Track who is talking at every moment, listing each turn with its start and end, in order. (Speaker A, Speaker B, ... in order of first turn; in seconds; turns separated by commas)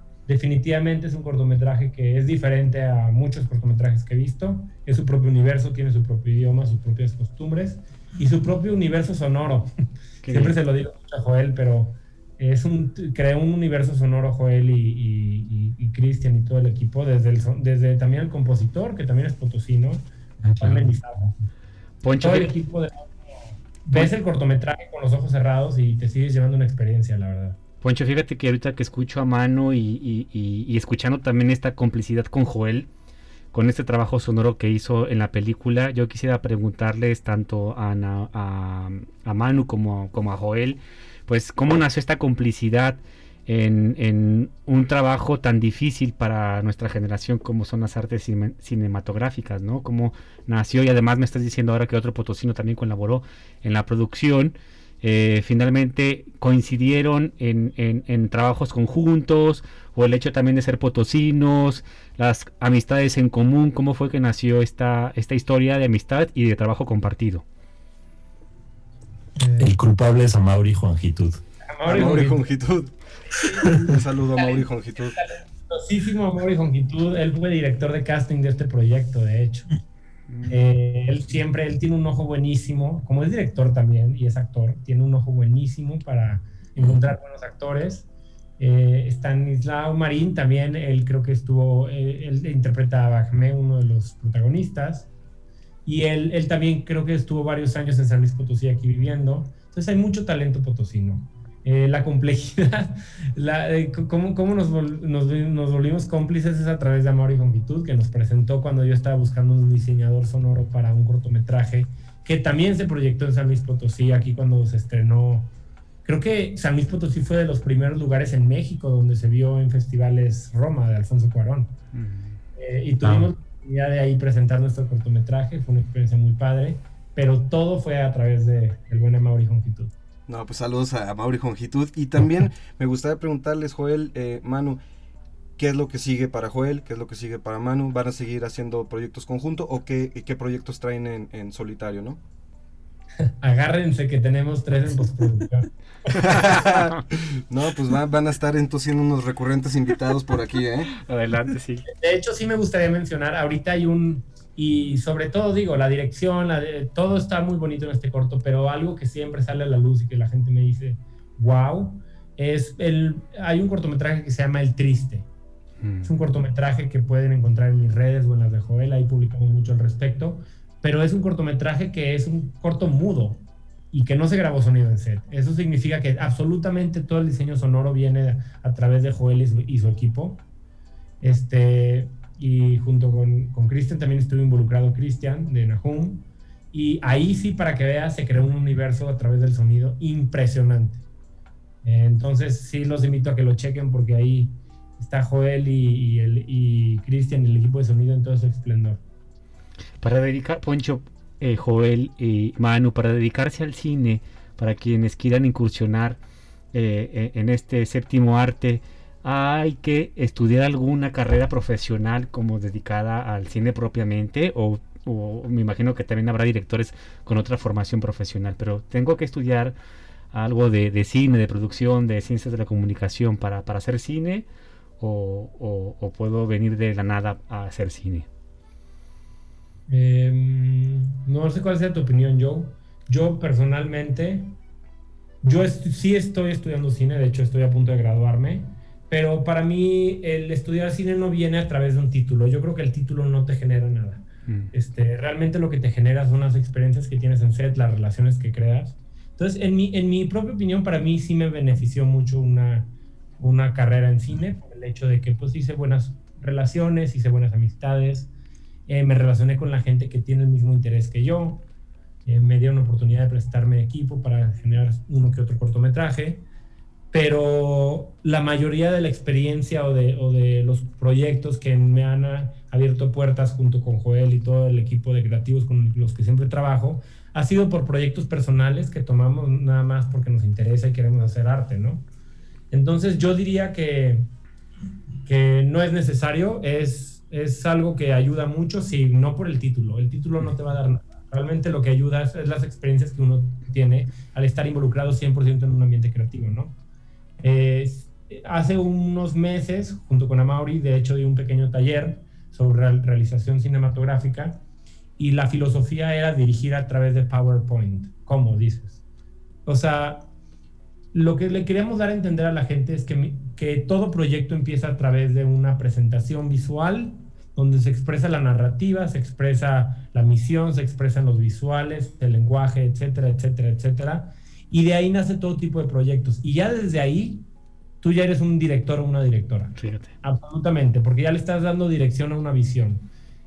Speaker A: 0.3-9.7, Speaker B: 10.2-10.6, Speaker A: 10.3-20.1, Speaker C: 20.4-21.3, Speaker A: 20.6-21.3, Speaker B: 22.0-22.5, Speaker A: 22.1-23.1, Speaker A: 23.8-27.6, Speaker B: 27.8-32.9, Speaker B: 33.5-67.4, Speaker A: 69.4-69.7, Speaker C: 69.6-71.4, Speaker A: 71.6-72.4, Speaker D: 71.8-72.9, Speaker A: 73.4-79.7, Speaker D: 73.8-75.2, Speaker B: 80.3-80.6, Speaker A: 80.5-88.1, Speaker A: 88.6-95.1, Speaker A: 95.8-115.5, Speaker A: 116.0-121.7, Speaker B: 121.9-122.4, Speaker A: 122.5-129.9, Speaker C: 123.0-123.3, Speaker D: 130.3-134.8, Speaker D: 135.6-142.2, Speaker A: 143.4-145.7, Speaker D: 146.2-150.9, Speaker B: 151.0-151.9, Speaker A: 151.9-165.3, Speaker B: 165.8-166.1, Speaker A: 166.0-180.4, Speaker A: 181.2-191.0, Speaker A: 191.8-199.0, Speaker B: 200.0-206.2, Speaker B: 206.7-219.7, Speaker B: 220.3-224.5, Speaker B: 225.0-228.3, Speaker A: 229.9-234.6, Speaker A: 235.4-258.3, Speaker A: 258.9-261.6, Speaker A: 262.2-266.4, Speaker A: 267.1-282.1, Speaker A: 282.7-284.3, Speaker A: 285.2-296.8, Speaker A: 297.4-304.6, Speaker A: 305.2-309.0, Speaker A: 309.6-310.3, Speaker A: 311.1-327.5, Speaker A: 328.0-333.1, Speaker B: 329.8-330.1